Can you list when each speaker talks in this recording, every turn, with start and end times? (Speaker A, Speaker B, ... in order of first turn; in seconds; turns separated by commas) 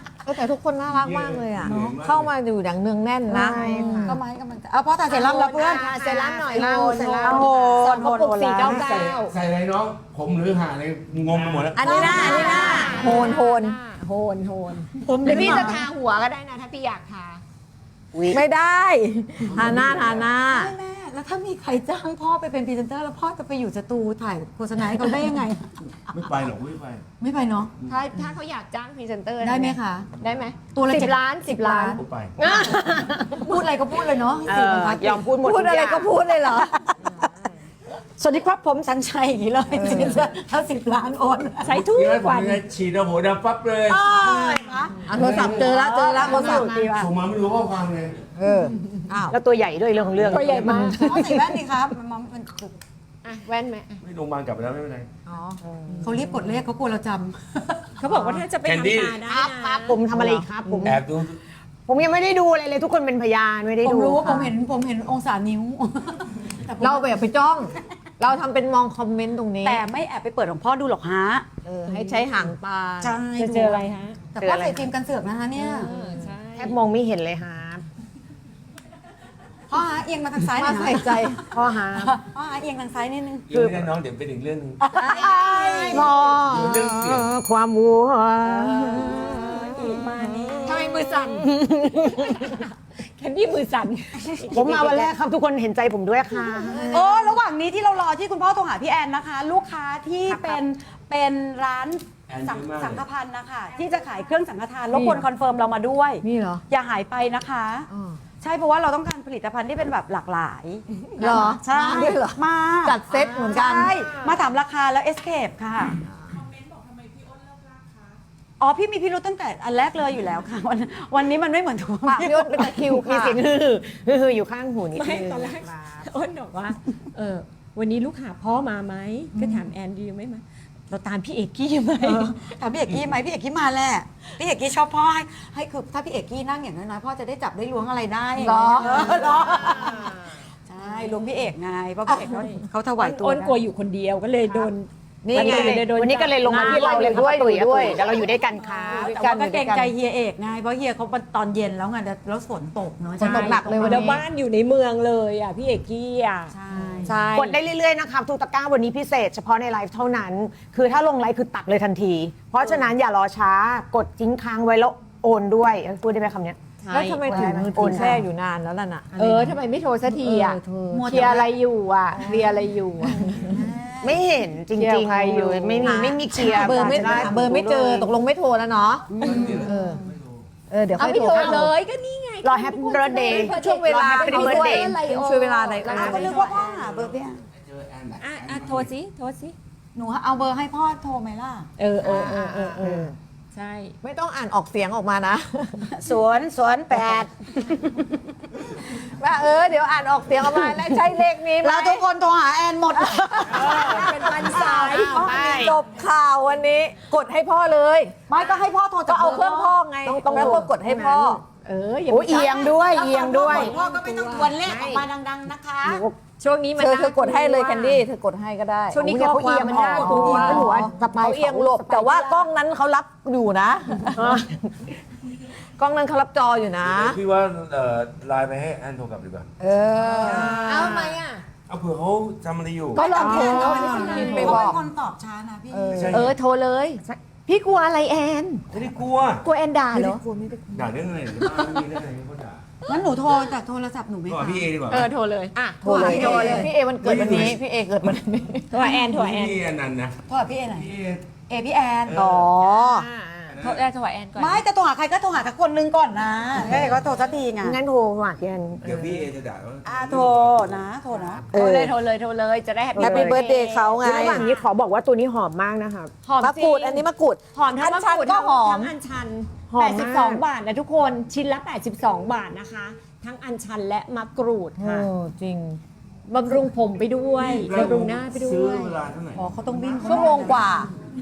Speaker A: 0.2-4.2, Speaker B: 1.0-2.3, Speaker C: 1.7-1.9, Speaker D: 3.3-4.2, Speaker C: 3.4-5.9, Speaker D: 5.1-9.1, Speaker E: 5.3-9.3, Speaker A: 7.2-8.1, Speaker C: 7.2-8.8, Speaker B: 8.6-12.4, Speaker A: 11.8-13.8, Speaker C: 11.8-13.3, Speaker E: 11.8-17.4, Speaker C: 15.0-15.8, Speaker A: 15.2-15.8, Speaker D: 18.1-18.4, Speaker A: 18.3-20.7, Speaker B: 19.4-20.3, Speaker C: 20.5-26.0, Speaker B: 26.1-27.1, Speaker C: 27.2-27.7, Speaker E: 27.9-33.4, Speaker C: 29.4-30.1, Speaker C: 30.7-32.0, Speaker B: 31.9-32.4, Speaker D: 32.4-33.4, Speaker C: 33.4-37.1, Speaker D: 34.5-36.1, Speaker A: 35.6-36.7, Speaker C: 38.2-41.7, Speaker A: 39.8-40.1, Speaker E: 41.6-42.6, Speaker B: 41.7-44.1, Speaker C: 43.9-45.1, Speaker D: 44.2-44.5, Speaker A: 45.0-46.7, Speaker B: 45.1-48.2, Speaker E: 45.4-47.1, Speaker D: 46.2-46.9, Speaker A: 48.4-49.4, Speaker D: 49.3-51.6, Speaker E: 50.2-51.1, Speaker C: 50.6-52.8, Speaker E: 53.2-54.0, Speaker B: 54.0-55.1, Speaker A: 55.3-55.6, Speaker D: 55.7-56.0, Speaker C: 56.0-57.9, Speaker E: 58.0-60.0, Speaker B: 58.6-59.2, Speaker D: 59.2-61.0, Speaker A: 60.1-60.5, Speaker B: 60.8-61.4, Speaker D: 61.9-64.5, Speaker C: 63.8-67.1, Speaker A: 66.8-69.8, Speaker C: 69.6-71.5, Speaker A: 71.7-73.2, Speaker C: 73.0-75.9, Speaker E: 73.4-74.2, Speaker D: 74.4-74.9, Speaker E: 75.6-76.8, Speaker D: 76.6-77.8, Speaker C: 79.7-81.3, Speaker A: 80.5-81.4, Speaker D: 81.5-82.2, Speaker C: 82.0-83.5, Speaker B: 83.5-84.8, Speaker D: 83.5-83.9, Speaker C: 84.8-86.1, Speaker D: 84.9-92.6, Speaker A: 85.0-85.5, Speaker E: 85.5-86.0, Speaker B: 86.5-87.3, Speaker E: 88.6-95.1, Speaker C: 89.7-90.8, Speaker D: 94.5-97.1, Speaker A: 96.7-97.3, Speaker C: 96.8-107.9, Speaker B: 102.3-103.0, Speaker A: 104.9-105.2, Speaker A: 106.2-106.6, Speaker A: 107.9-108.2, Speaker C: 108.4-116.0, Speaker A: 111.2-114.0, Speaker C: 118.6-122.6, Speaker A: 122.0-123.4, Speaker D: 122.3-126.1, Speaker E: 125.0-132.3, Speaker C: 129.3-129.7, Speaker C: 132.0-140.1, Speaker A: 138.4-139.9, Speaker E: 139.6-140.1, Speaker C: 140.7-143.6, Speaker E: 142.1-147.3, Speaker A: 145.2-145.9, Speaker D: 145.3-149.9, Speaker A: 146.5-148.0, Speaker C: 148.9-154.2, Speaker A: 149.0-149.7, Speaker A: 153.2-154.2, Speaker E: 153.2-156.5, Speaker C: 156.5-157.2, Speaker E: 157.1-157.6, Speaker D: 157.1-166.6, Speaker E: 162.6-162.9, Speaker E: 166.8-168.1, Speaker A: 166.9-169.6, Speaker D: 167.2-168.2, Speaker C: 167.3-168.0, Speaker E: 169.1-173.3, Speaker A: 170.1-171.4, Speaker C: 170.9-171.5, Speaker C: 173.5-174.2, Speaker D: 174.0-178.1, Speaker E: 174.8-177.2, Speaker A: 175.8-180.0, Speaker C: 176.9-177.2, Speaker C: 179.1-179.7, Speaker B: 179.2-180.5, Speaker A: 180.7-181.7, Speaker E: 180.9-186.4, Speaker D: 181.3-181.7, Speaker D: 182.4-184.9, Speaker A: 183.3-186.5, Speaker C: 185.9-187.4, Speaker B: 186.1-188.9, Speaker E: 188.2-189.6, Speaker C: 189.9-191.7, Speaker E: 191.8-194.0, Speaker A: 192.1-193.1, Speaker D: 192.1-193.1, Speaker A: 194.0-195.9, Speaker C: 195.9-197.3, Speaker A: 199.0-202.1, Speaker C: 201.6-205.7, Speaker A: 202.9-208.2, Speaker E: 203.5-205.8, Speaker D: 205.0-205.7, Speaker C: 208.3-211.1, Speaker A: 209.1-211.4, Speaker D: 210.2-211.1, Speaker E: 210.3-210.6, Speaker E: 211.6-215.1, Speaker D: 212.1-213.7, Speaker C: 212.3-216.0, Speaker D: 215.8-216.1, Speaker E: 216.3-218.0, Speaker A: 216.8-219.0, Speaker E: 218.9-221.3, Speaker D: 219.0-222.5, Speaker A: 219.9-224.4, Speaker C: 220.1-220.8, Speaker D: 224.2-224.7, Speaker A: 225.8-227.2, Speaker B: 226.8-229.5, Speaker A: 229.6-231.0, Speaker C: 230.0-230.9, Speaker E: 230.2-231.4, Speaker B: 231.7-233.1, Speaker E: 233.0-234.7, Speaker A: 233.0-234.8, Speaker C: 233.0-236.1, Speaker D: 233.3-233.7, Speaker A: 235.7-236.3, Speaker B: 235.9-236.4, Speaker E: 236.1-238.7, Speaker B: 238.7-239.4, Speaker E: 239.4-240.2, Speaker A: 239.9-240.8, Speaker B: 240.7-242.6, Speaker C: 242.9-244.7, Speaker B: 244.3-245.1, Speaker E: 244.9-246.6, Speaker A: 245.8-248.7, Speaker C: 245.8-246.7, Speaker D: 245.9-246.6, Speaker B: 247.0-247.6, Speaker E: 248.7-249.6, Speaker B: 248.9-251.3, Speaker C: 250.3-250.9, Speaker C: 251.5-252.2, Speaker B: 252.1-252.5, Speaker A: 252.1-253.1, Speaker E: 252.6-254.6, Speaker B: 253.5-253.9, Speaker C: 254.4-257.8, Speaker B: 256.8-257.0, Speaker D: 257.6-259.3, Speaker B: 258.8-261.4, Speaker C: 259.9-261.5, Speaker A: 261.5-261.9, Speaker E: 261.5-264.6, Speaker D: 262.9-263.4, Speaker A: 263.0-264.5, Speaker D: 264.0-266.2, Speaker E: 266.2-275.1, Speaker A: 266.4-268.9, Speaker D: 269.7-270.4, Speaker A: 274.8-275.8, Speaker E: 276.3-278.9, Speaker B: 277.4-280.2, Speaker C: 279.3-280.7, Speaker A: 280.0-280.9